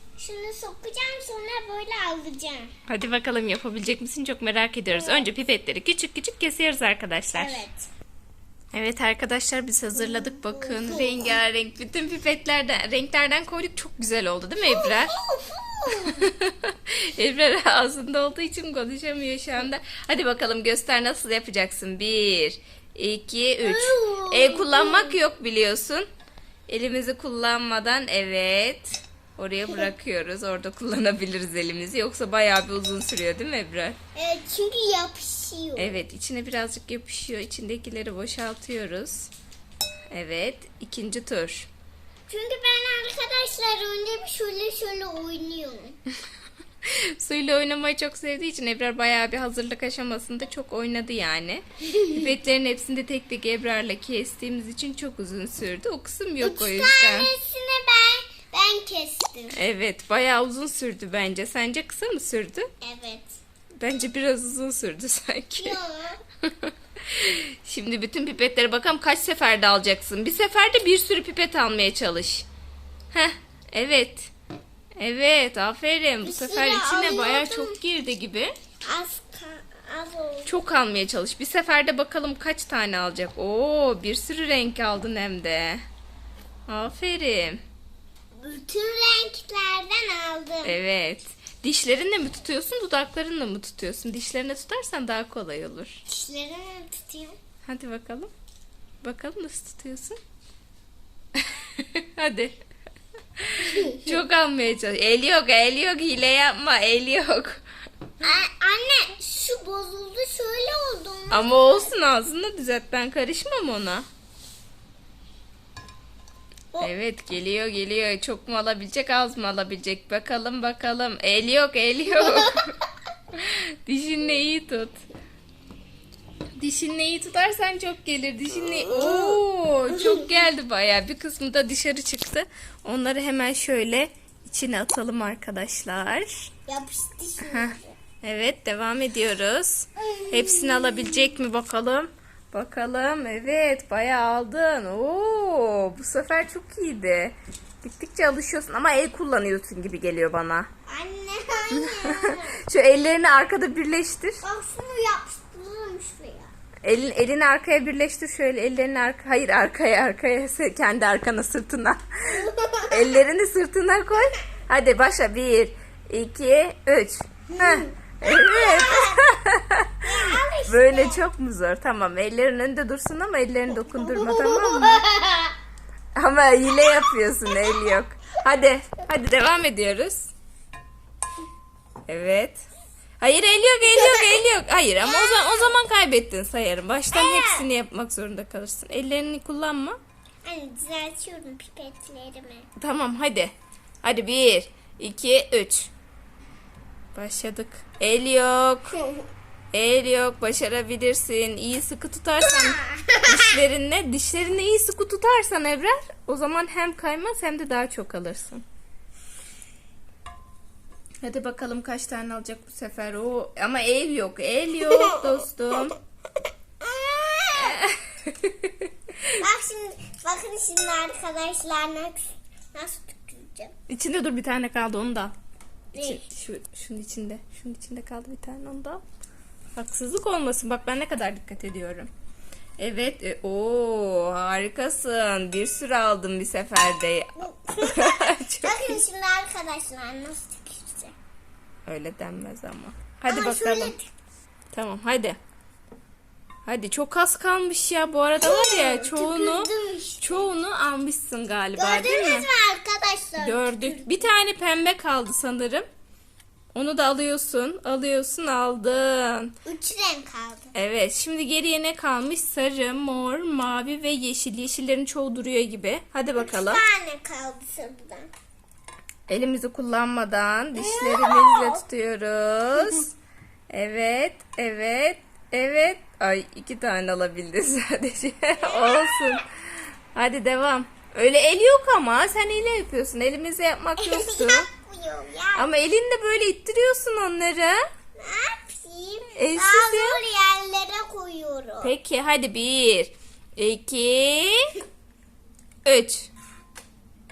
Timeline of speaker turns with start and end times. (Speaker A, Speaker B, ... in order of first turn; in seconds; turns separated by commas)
Speaker A: 0.2-2.7, Speaker B: 2.9-7.6, Speaker A: 4.9-5.3, Speaker A: 7.3-7.9, Speaker B: 8.7-15.1, Speaker A: 10.0-11.4, Speaker A: 14.6-16.3, Speaker B: 16.0-26.1, Speaker A: 23.6-25.2, Speaker B: 26.7-34.0, Speaker A: 34.1-36.0, Speaker B: 35.8-39.3, Speaker B: 40.1-41.7, Speaker A: 42.3-46.0, Speaker B: 46.8-57.3, Speaker A: 51.9-52.2, Speaker A: 56.4-59.5, Speaker B: 59.5-62.7, Speaker A: 62.8-63.4, Speaker B: 63.8-65.8, Speaker A: 65.5-66.2, Speaker B: 66.5-72.5, Speaker B: 73.1-74.3, Speaker B: 75.0-78.5, Speaker A: 76.2-77.8, Speaker A: 78.8-80.5, Speaker B: 80.5-85.8, Speaker B: 86.7-87.6, Speaker A: 88.3-90.8, Speaker B: 90.6-96.0, Speaker A: 96.1-97.3, Speaker B: 97.6-98.3, Speaker B: 99.0-100.2, Speaker B: 101.3-102.5, Speaker B: 103.4-107.6, Speaker A: 103.6-104.1, Speaker A: 108.2-111.9, Speaker B: 111.3-114.0, Speaker B: 116.8-122.7, Speaker A: 122.1-122.6, Speaker B: 123.3-125.0, Speaker B: 126.6-136.5, Speaker A: 128.8-129.4, Speaker A: 129.9-130.3, Speaker A: 136.7-138.0, Speaker B: 137.5-150.7, Speaker A: 140.0-141.3, Speaker A: 150.9-152.6, Speaker B: 151.7-154.4, Speaker A: 154.4-156.5, Speaker B: 156.8-170.0, Speaker A: 162.3-163.0, Speaker A: 167.5-169.2, Speaker A: 170.0-171.2, Speaker B: 170.7-175.0, Speaker A: 173.9-175.5, Speaker B: 176.2-180.3, Speaker A: 177.5-177.9, Speaker B: 182.1-182.7, Speaker B: 183.2-190.0, Speaker A: 183.9-184.4, Speaker A: 185.0-185.8, Speaker A: 187.1-187.7, Speaker A: 190.4-192.7, Speaker B: 192.8-195.9, Speaker B: 197.1-199.0, Speaker A: 199.0-199.2, Speaker B: 199.7-208.6, Speaker A: 202.4-203.6, Speaker B: 211.2-215.9, Speaker A: 216.8-217.8, Speaker B: 217.6-219.3, Speaker A: 219.3-223.7, Speaker B: 223.9-225.3, Speaker A: 225.9-226.3, Speaker B: 225.9-229.0, Speaker B: 229.7-232.1, Speaker B: 232.8-238.9, Speaker A: 237.4-241.1, Speaker B: 241.8-243.9, Speaker A: 243.3-244.1, Speaker B: 244.7-245.4, Speaker B: 246.6-252.5, Speaker A: 248.4-250.5, Speaker A: 251.8-254.3, Speaker B: 253.4-255.8, Speaker B: 256.7-259.5, Speaker A: 259.6-260.7, Speaker B: 260.7-266.8, Speaker A: 266.4-268.3, Speaker B: 269.3-273.1, Speaker A: 270.8-271.8, Speaker B: 273.7-279.4, Speaker A: 278.6-279.4, Speaker B: 280.1-284.7, Speaker A: 284.0-285.7, Speaker B: 285.5-287.8, Speaker A: 288.2-291.9, Speaker B: 289.4-290.2, Speaker B: 291.8-294.6, Speaker B: 295.8-296.3